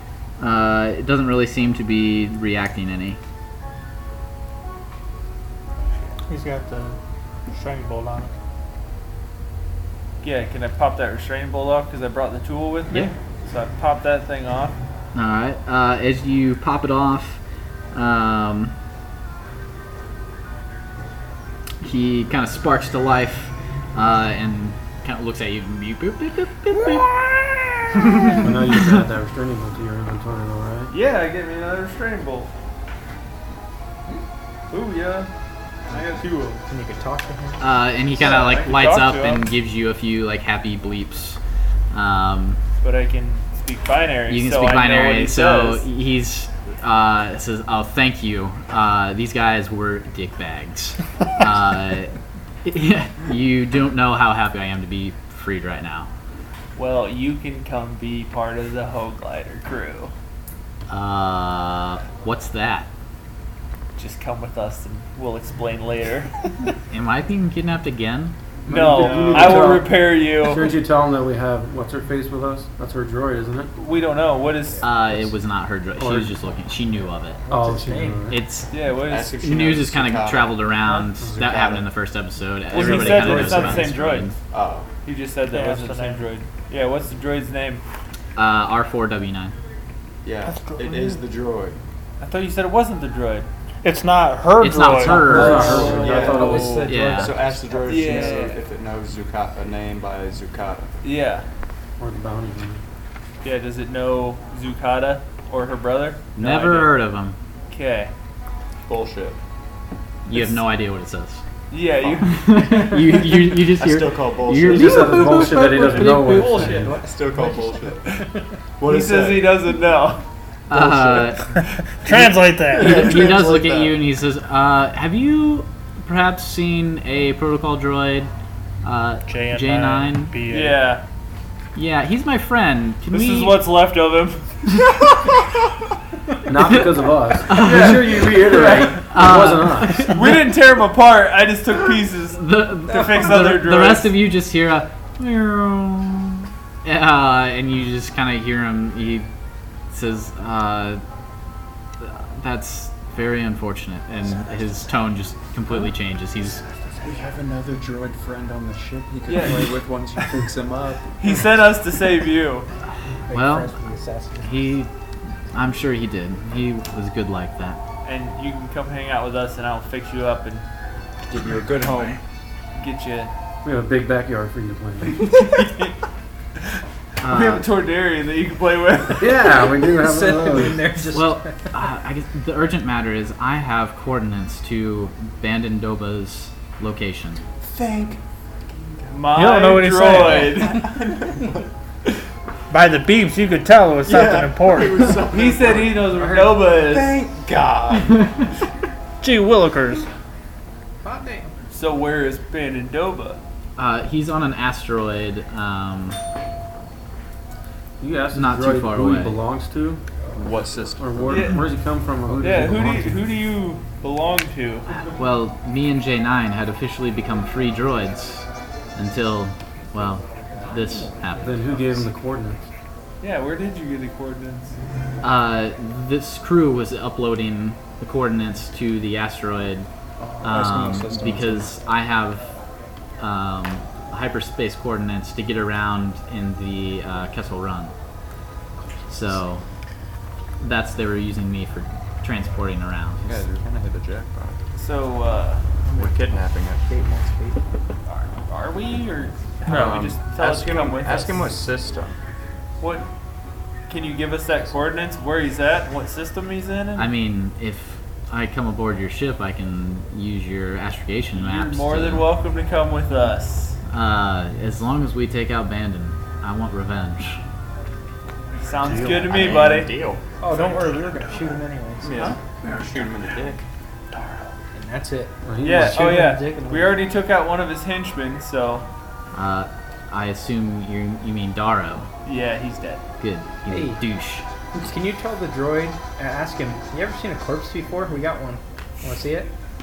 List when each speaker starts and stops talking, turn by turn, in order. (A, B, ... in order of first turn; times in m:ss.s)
0:00.4-0:03.2 A
0:06.3-0:07.0 B
0:07.5-0:08.3 B
0:10.2-0:14.8 C
0:15.1-0:17.4 A
0:17.9-0:18.7 A
0:21.8-0:27.1 A
0:28.4-0:30.9 D
0:30.9-0:32.5 C
0:34.7-0:35.3 C
0:35.9-0:36.6 C
0:36.7-0:37.6 E
0:37.6-0:41.4 A
0:38.1-0:39.5 C
0:41.9-0:42.6 A
0:42.8-0:45.9 C
0:44.3-0:52.1 A
0:52.6-0:56.1 A
0:56.8-1:00.1 C
1:00.9-1:02.9 A
1:04.0-1:06.3 C
1:06.9-1:08.3 A
1:08.7-1:10.8 C
1:08.7-1:13.7 D
1:13.8-1:14.9 C
1:14.8-1:17.4 A
1:16.0-1:16.3 D
1:17.5-1:18.3 E
1:17.5-1:18.4 D
1:18.3-1:18.7 A
1:18.7-1:19.4 C
1:19.0-1:20.6 F
1:19.4-1:24.3 A
1:21.2-1:21.6 D
1:21.3-1:21.9 F
1:22.7-1:24.3 C
1:23.3-1:23.7 F
1:24.4-1:24.9 F
1:25.0-1:27.8 C
1:25.5-1:26.2 B
1:28.4-1:29.5 A
1:30.2-1:31.8 F
1:30.5-1:31.2 B
1:32.2-1:33.5 C
1:33.8-1:35.5 B
1:34.6-1:36.0 A
1:34.7-1:37.3 D
1:35.3-1:41.0 F
1:35.5-1:36.9 C
1:35.9-1:38.2 E
1:36.8-1:37.3 A
1:37.8-1:38.6 C
1:41.0-1:41.4 C
1:42.0-1:42.8 D
1:43.4-1:47.0 C
1:46.4-1:47.4 A
1:47.7-1:48.1 C
1:48.9-1:49.4 F
1:50.2-1:51.4 A
1:50.3-1:50.6 C
1:51.7-1:52.5 C
1:52.2-1:55.8 A
1:53.7-1:55.5 F
1:54.6-1:56.9 D
1:55.2-1:58.0 E
1:55.8-1:56.9 C
1:56.9-1:58.2 F
1:58.8-1:59.6 F
1:58.8-2:00.2 C
2:00.7-2:01.5 A
2:00.7-2:01.3 D
2:02.0-2:03.1 B
2:02.1-2:04.0 F
2:02.7-2:08.3 A
2:08.8-2:10.3 A
2:09.3-2:10.8 B
2:10.5-2:11.0 C
2:11.7-2:13.6 A
2:13.1-2:14.5 C
2:16.4-2:20.2 D
2:17.5-2:18.3 A
2:17.5-2:19.0 C
2:18.9-2:20.4 A
2:20.1-2:24.1 C
2:22.3-2:29.3 A
2:29.9-2:31.0 A
2:32.0-2:36.6 A
2:37.0-2:41.1 F
2:39.3-2:39.8 C
2:41.2-2:42.7 C
2:43.3-2:44.7 E
2:43.3-2:43.7 A
2:44.4-2:44.9 A
2:45.5-2:47.8 A
2:48.0-2:50.6 C
2:51.3-2:52.2 F
2:52.8-2:53.3 C
2:53.6-2:55.2 D
2:55.1-2:55.9 C
2:57.2-2:57.6 A
2:57.2-2:59.4 C
2:59.2-3:01.0 D
2:59.3-3:01.6 E
3:01.1-3:07.4 A
3:07.7-3:09.4 F
3:09.1-3:10.9 C
3:09.3-3:10.6 B
3:10.2-3:11.6 F
3:12.7-3:15.2 B
3:14.0-3:18.4 F
3:15.2-3:17.2 C
3:19.2-3:20.1 B
3:21.0-3:21.5 E
3:21.7-3:23.4 C
3:23.8-3:26.2 A
3:28.0-3:30.0 D
3:28.3-3:29.4 A
3:30.3-3:31.5 F
3:31.0-3:33.3 D
3:31.3-3:31.6 C
3:32.4-3:34.9 C
3:34.9-3:41.8 A
3:41.4-3:42.7 D
3:43.2-3:44.8 C
3:45.2-3:49.9 A
3:50.2-3:51.7 F
3:50.4-3:52.5 A
3:53.2-3:57.9 A
3:59.1-3:59.6 A
4:00.6-4:03.4 A
4:03.2-4:04.6 F
4:04.8-4:05.8 C
4:05.9-4:07.6 E
4:05.9-4:06.8 F
4:08.1-4:11.6 C
4:09.7-4:12.2 F
4:09.7-4:09.9 B
4:12.8-4:13.0 C
4:13.9-4:17.1 C
4:16.9-4:22.3 A
4:21.3-4:23.8 C
4:23.9-4:27.4 A
4:28.6-4:29.9 C
4:28.8-4:30.2 F
4:30.4-4:32.3 E
4:32.0-4:33.6 F
4:34.7-4:37.0 E
4:35.4-4:36.2 D
4:35.6-4:38.8 C
4:39.3-4:42.1 A
4:42.2-4:43.0 C
4:43.2-4:44.4 A
4:43.7-4:44.0 E
4:44.8-4:49.5 E